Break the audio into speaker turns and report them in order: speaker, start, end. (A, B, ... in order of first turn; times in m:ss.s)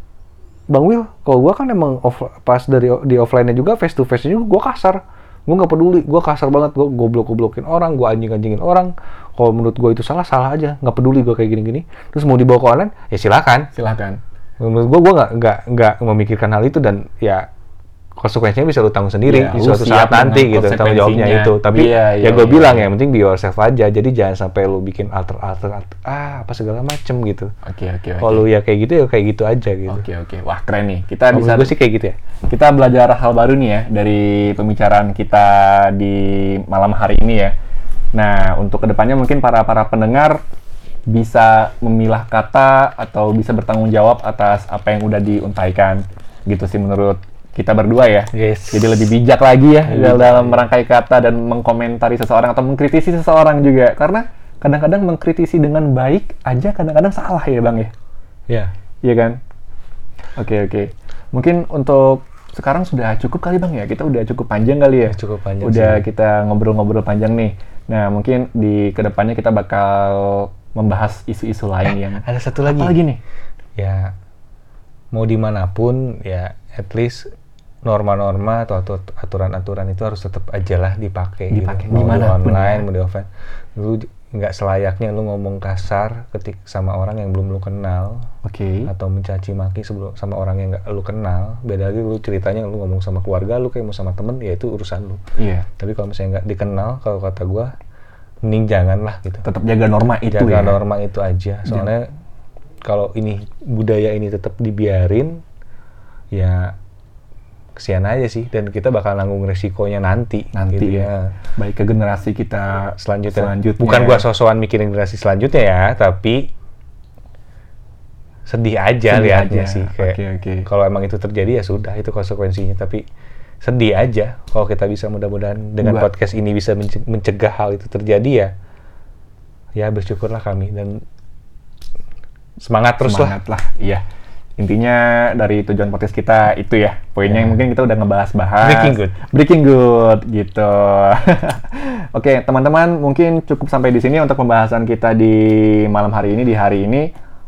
0:00.7-0:13.7 A
0:13.7-0:14.2 B
0:14.6-0:17.5 A
0:18.2-0:27.5 A
0:19.3-0:22.9 B
0:27.6-0:28.4 B
0:28.2-0:30.0 A
0:29.9-0:31.7 B
0:31.3-0:32.2 A
0:32.5-0:37.5 B
0:38.2-0:40.4 B
0:41.1-0:57.9 B
0:48.3-0:49.1 A
0:49.8-0:50.7 A
0:59.0-0:59.4 B
1:00.4-1:13.2 B
1:05.1-1:06.0 A
1:11.8-1:13.0 A
1:13.8-1:14.1 A
1:15.1-1:17.3 A
1:17.8-1:28.2 A
1:21.5-1:22.8 B
1:28.4-1:28.9 B
1:28.9-1:35.2 A
1:35.4-1:35.7 B
1:35.8-1:37.7 A
1:38.4-1:39.4 A
1:39.4-1:40.8 B
1:40.3-1:42.1 A
1:42.8-1:45.4 A
1:46.3-1:46.8 A
1:47.8-1:51.3 A
1:50.5-1:54.2 B
1:53.0-1:56.5 A
1:58.5-2:03.0 A
1:59.1-2:00.7 B
2:03.6-2:08.5 A
2:05.8-2:06.1 B
2:09.8-2:11.0 A
2:12.6-2:13.4 A
2:13.0-2:14.0 B
2:14.6-2:27.1 B
2:17.2-2:17.6 A
2:18.6-2:19.2 A